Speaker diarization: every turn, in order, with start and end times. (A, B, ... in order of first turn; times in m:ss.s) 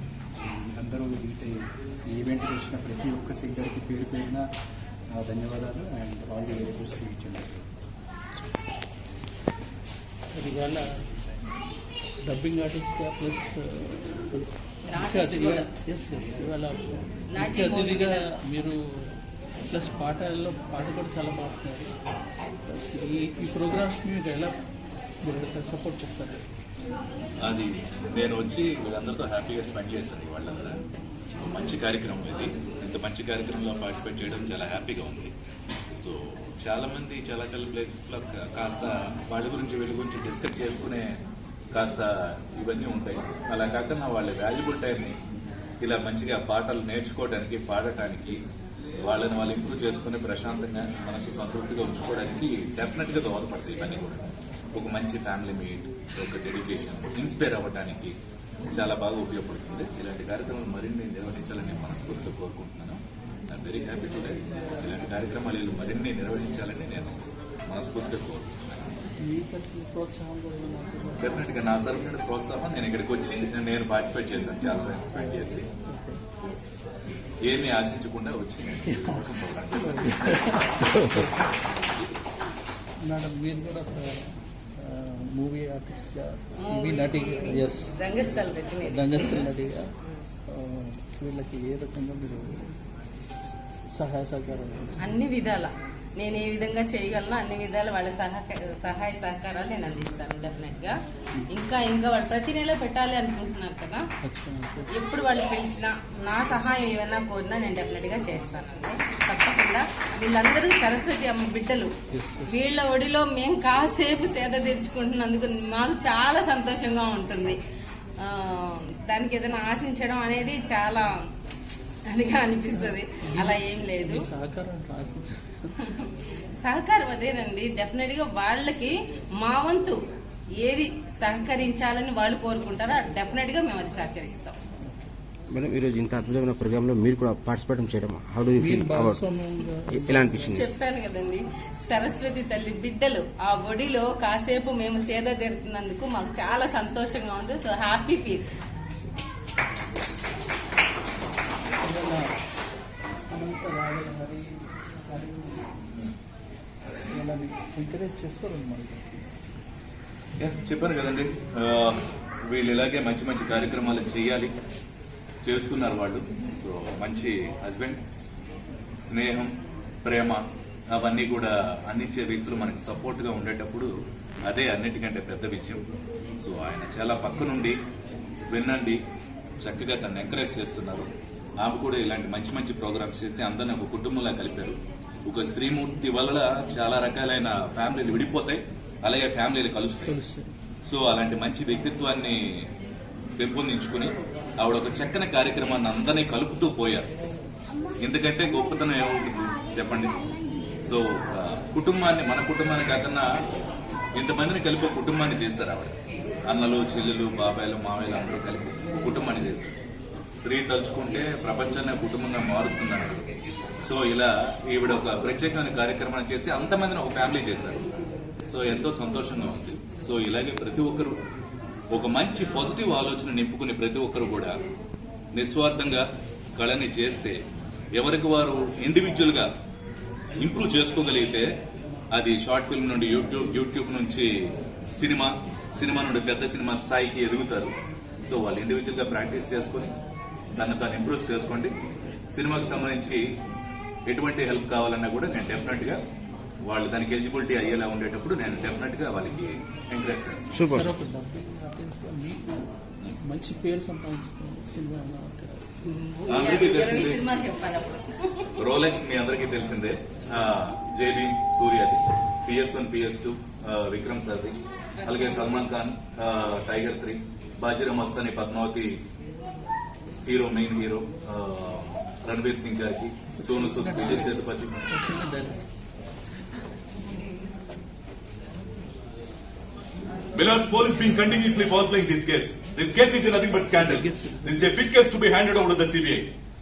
0:00.4-0:04.5 A
0:05.1-0:07.7 A
0:10.3-0:10.9 B
0:12.3-0:19.1 B
0:14.9-0:15.7 C
0:17.3-0:18.2 C
0:19.7-0:21.9 B
0:22.6-0:24.5 B
0:25.2-0:26.4 B
0:27.4-0:30.8 D
0:31.4-0:35.3 D
0:36.0-0:41.2 D
0:41.7-0:45.1 D
0:45.8-0:48.4 D
0:49.0-0:58.1 D
0:58.7-1:08.9 D
1:09.2-1:11.5 B
1:11.2-1:15.7 D
1:15.1-1:16.2 B
1:17.4-1:20.7 D
1:19.7-1:21.5 B
1:23.1-1:27.9 B
1:26.6-1:29.4 C
1:28.8-1:29.9 B
1:30.5-1:32.7 B
1:33.9-1:35.0 B
1:35.0-1:41.0 C
1:41.5-1:44.0 C
1:44.2-1:44.9 B
1:44.9-1:51.9 C
1:52.1-1:52.6 B
1:52.5-1:57.6 C
1:58.2-2:01.1 C
2:02.1-2:04.2 C
2:02.7-2:05.7 B
2:06.6-2:10.0 C
2:10.6-2:14.6 C
2:14.8-2:15.1 B
2:15.5-2:19.2 E
2:18.6-2:20.6 B
2:19.9-2:20.6 E
2:20.5-2:28.4 C
2:31.8-2:32.3 B
2:33.3-2:36.0 B
2:37.1-2:39.7 B
2:40.4-2:44.5 D
2:45.4-2:48.0 D
2:49.0-2:49.5 D
2:50.0-2:50.4 D
2:50.9-2:53.9 D
2:54.4-2:55.8 D
2:56.4-2:57.8 D
2:58.5-2:59.0 D
2:59.6-3:01.1 D
3:01.6-3:10.2 D
3:10.0-3:10.5 B
3:10.8-3:12.6 D
3:13.4-3:17.1 D
3:18.0-3:20.1 D
3:20.8-3:23.3 D
3:24.1-3:25.9 D
3:26.4-3:29.7 D
3:30.4-3:33.3 D
3:33.8-3:37.8 D
3:38.5-3:41.1 D
3:41.9-3:44.5 D
3:45.3-3:46.0 D
3:46.6-3:47.4 D
3:47.9-3:49.5 D
3:50.4-3:51.5 D
3:52.1-3:57.7 D
3:58.3-3:59.9 D
4:00.6-4:01.7 D
4:02.3-4:03.2 D
4:04.1-4:06.0 D
4:06.6-4:10.5 D
4:10.5-4:10.9 E
4:10.7-4:12.7 B
4:13.2-4:15.7 B
4:15.8-4:18.4 C
4:16.3-4:17.2 D
4:18.6-4:29.0 D
4:25.0-4:25.6 C
4:30.2-4:34.8 D
4:33.3-4:35.7 B
4:40.3-4:46.3 D
4:43.8-4:44.7 B